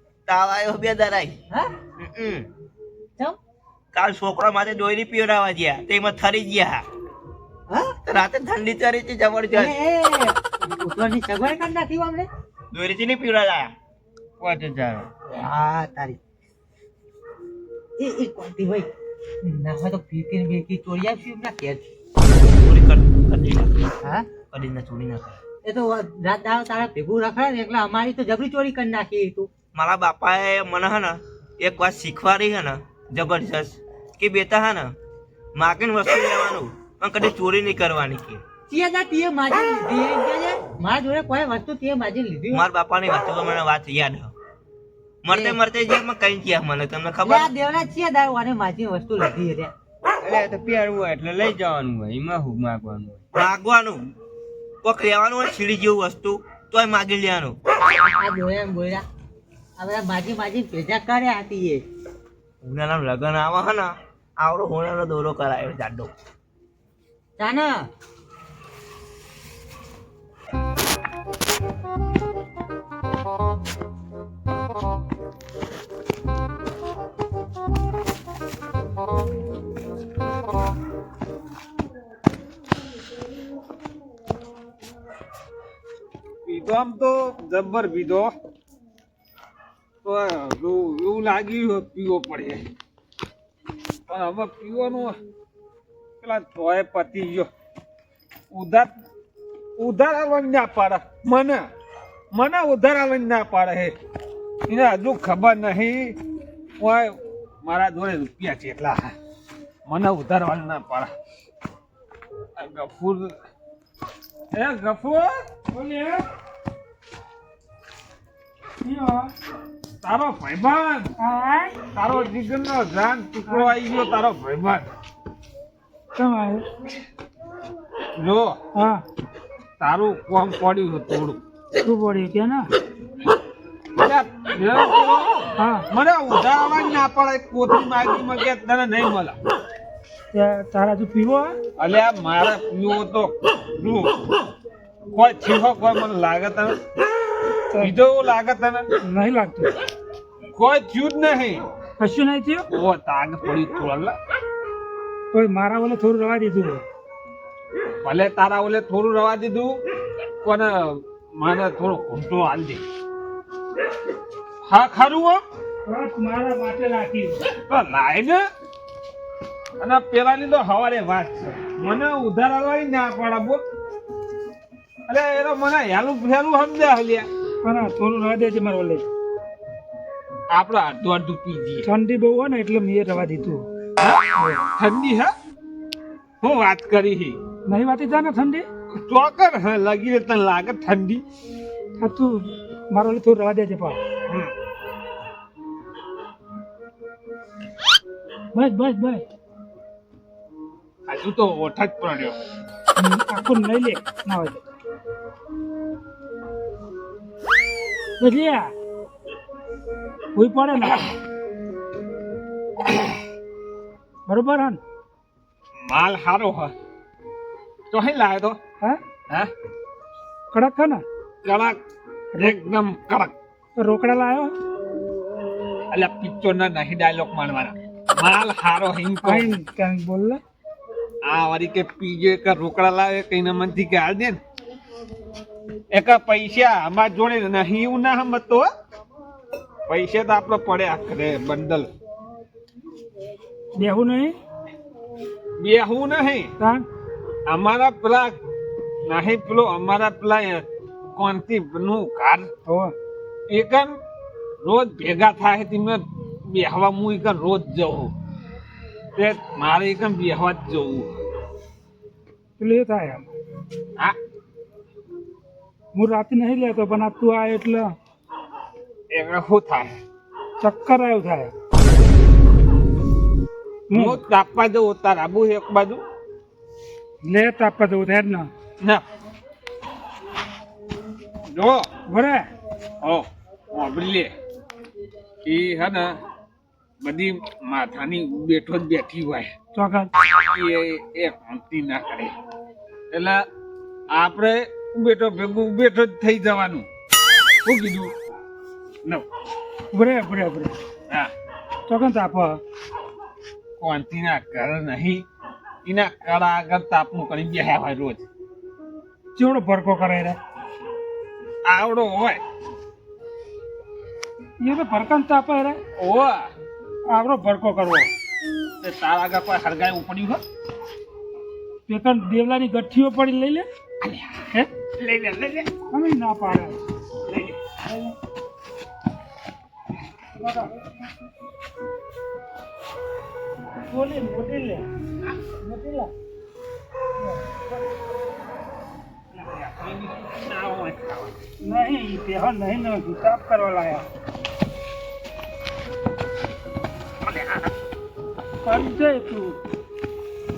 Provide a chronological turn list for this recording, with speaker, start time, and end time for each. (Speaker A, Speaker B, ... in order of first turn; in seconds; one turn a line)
Speaker A: 0.3-1.3
Speaker A: 2.0-2.5
Speaker A: 3.9-6.8
Speaker B: 7.7-7.9
Speaker A: 8.0-9.7
Speaker B: 9.5-12.3
Speaker A: 12.7-13.7
Speaker C: 14.4-15.1
Speaker B: 15.3-16.2
Speaker B: 18.0-18.9
Speaker B: 19.4-21.9
Speaker A: 22.6-23.7
Speaker B: 24.0-24.3
Speaker A: 24.5-25.4
Speaker B: 25.6-29.5
Speaker A: 29.7-34.9
Speaker A: 35.5-38.4
Speaker B: 38.7-42.6
Speaker A: 42.5-44.3
Speaker A: 45.2-47.5
Speaker B: 45.3-45.6
Speaker B: 47.2-49.7
Speaker C: 50.2-53.2
Speaker A: 53.3-54.1
Speaker A: 54.8-57.6
Speaker B: 57.9-59.0
Speaker B: 59.8-61.8
Speaker A: 62.6-66.1
Speaker B: 67.4-67.9
Speaker D: 86.5-88.3
Speaker D: 90.0-92.7
Speaker D: 94.1-95.2
Speaker D: 96.2-97.5
Speaker D: 98.5-98.9
Speaker D: 99.8-101.7
Speaker D: 102.3-103.9
Speaker D: 104.7-106.2
Speaker D: 106.8-109.1
Speaker D: 109.8-111.1
Speaker D: 112.5-113.3
Speaker D: 114.5-115.3
Speaker E: 115.7-116.2
Speaker E: 118.8-119.3
Speaker D: 120.0-121.1
Speaker E: 121.2-121.8
Speaker D: 121.9-124.9
Speaker E: 123.5-123.7
Speaker E: 126.2-126.6
Speaker D: 128.2-128.6
Speaker E: 128.7-129.0
Speaker D: 129.8-131.4
Speaker E: 131.8-132.7
Speaker D: 134.0-135.3
Speaker E: 135.6-135.9
Speaker D: 135.9-139.4
Speaker E: 140.3-141.6
Speaker D: 141.8-144.2
Speaker D: 145.1-146.8
Speaker D: 147.8-148.9
Speaker E: 149.0-149.7
Speaker D: 150.5-151.6
Speaker E: 152.0-152.7
Speaker D: 152.7-154.2
Speaker E: 155.3-156.8
Speaker D: 158.0-159.8
Speaker D: 160.4-162.8
Speaker D: 164.6-165.4
Speaker E: 165.9-167.4
Speaker D: 167.6-168.4
Speaker D: 169.8-173.6
Speaker D: 175.1-177.3
Speaker E: 177.6-179.0
Speaker D: 180.5-181.9
Speaker E: 181.8-183.6
Speaker D: 184.0-185.3
Speaker E: 184.3-184.6
Speaker D: 186.4-187.4
Speaker E: 187.7-188.7
Speaker D: 188.9-191.2
Speaker E: 192.0-194.0
Speaker E: 198.5-199.2
Speaker D: 201.1-202.3
Speaker E: 202.9-204.6
Speaker E: 208.2-208.7
Speaker E: 210.3-211.1
Speaker E: 214.3-214.8
Speaker D: 215.8-216.7
Speaker D: 217.9-218.6
Speaker E: 220.5-221.0
Speaker D: 221.4-221.8
Speaker E: 222.3-222.6
Speaker D: 222.4-223.3
Speaker E: 223.8-224.5
Speaker D: 225.9-229.6
Speaker E: 229.2-230.4
Speaker D: 231.2-234.4
Speaker D: 235.9-238.7
Speaker D: 239.9-241.9
Speaker E: 243.7-244.3
Speaker D: 245.6-246.5
Speaker E: 246.6-246.8
Speaker D: 247.5-248.4
Speaker D: 249.0-252.5
Speaker E: 252.7-252.9
Speaker D: 253.5-253.9
Speaker D: 254.6-258.1
Speaker D: 259.1-261.1
Speaker E: 262.6-263.3
Speaker E: 265.9-267.9
Speaker D: 269.1-270.0
Speaker E: 270.6-271.5
Speaker E: 273.9-274.2
Speaker D: 273.9-276.0
Speaker E: 277.2-278.5
Speaker D: 281.5-281.9
Speaker E: 282.1-282.5
Speaker D: 283.0-284.3
Speaker D: 285.4-286.1
Speaker D: 287.0-289.5
Speaker E: 289.7-290.1
Speaker D: 290.3-292.3
Speaker D: 293.1-293.4
Speaker D: 294.1-296.9
Speaker D: 297.6-298.1
Speaker E: 299.9-300.7
Speaker E: 301.9-302.6
Speaker D: 303.8-305.2
Speaker D: 305.8-308.2
Speaker E: 309.4-310.4
Speaker D: 311.6-312.4
Speaker E: 314.6-315.8
Speaker D: 316.0-316.5
Speaker E: 317.1-318.1
Speaker D: 318.8-320.4
Speaker E: 321.9-323.6
Speaker D: 324.0-324.4
Speaker D: 325.0-325.7
Speaker E: 325.9-326.8
Speaker D: 327.3-327.7
Speaker E: 327.8-328.1
Speaker E: 330.4-330.7
Speaker E: 333.9-334.9
Speaker E: 335.6-336.1
Speaker E: 337.3-337.6
Speaker D: 339.3-341.4
Speaker E: 341.6-344.1
Speaker E: 348.6-349.6